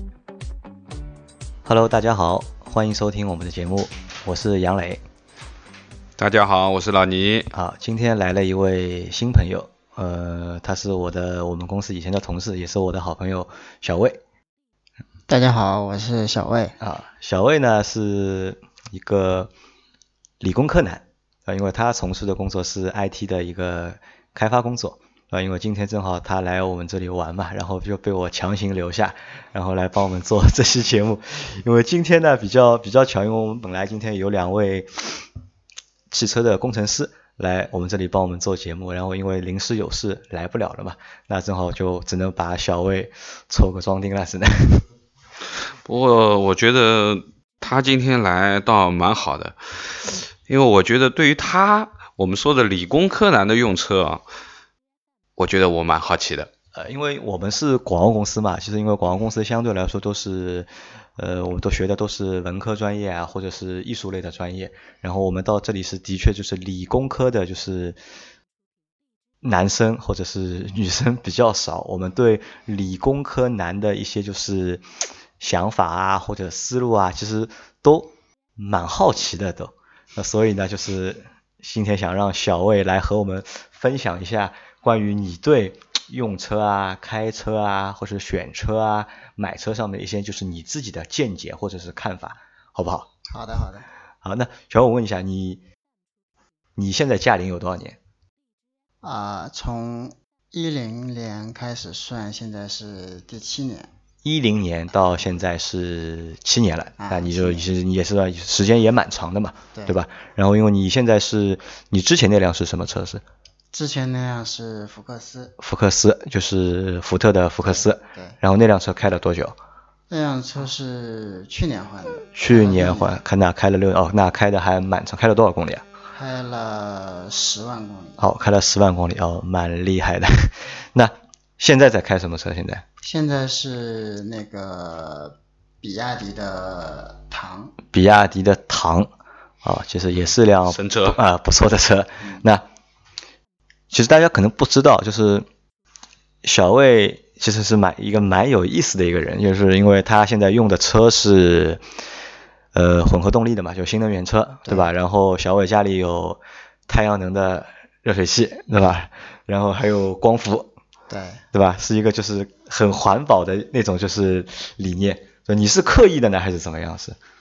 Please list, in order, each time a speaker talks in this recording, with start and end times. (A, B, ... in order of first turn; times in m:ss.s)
0:01.6-0:05.0 A
0:06.2-0:07.5 B
0:07.5-0:14.2 A
0:15.3-0:16.8 C
0:16.8-0:19.5 A
0:20.4-0:35.2 A
0:36.1-0:44.8 A
0:45.8-0:54.2 B
0:55.4-0:56.5 B
0:56.7-1:08.0 A
1:09.4-1:14.8 A
1:15.4-1:33.1 A
1:33.3-1:33.9 C
1:34.2-1:35.6 A
1:36.8-1:38.0 A
1:39.0-1:43.9 C
1:44.2-1:53.2 A
1:47.0-1:47.7 C
1:53.7-1:55.5 C
1:55.6-1:59.6 A
1:57.7-1:58.4 C
2:00.1-2:03.2 C
2:02.3-2:05.8 A
2:06.1-2:08.2 C
2:08.2-2:12.8 A
2:13.0-2:17.7 C
2:17.9-2:19.1 A
2:19.6-2:22.6 A
2:20.7-2:21.2 B
2:23.9-2:25.5 A
2:26.4-2:31.8 A
2:32.7-2:40.7 A
2:41.1-2:41.4 C
2:41.5-2:47.2 A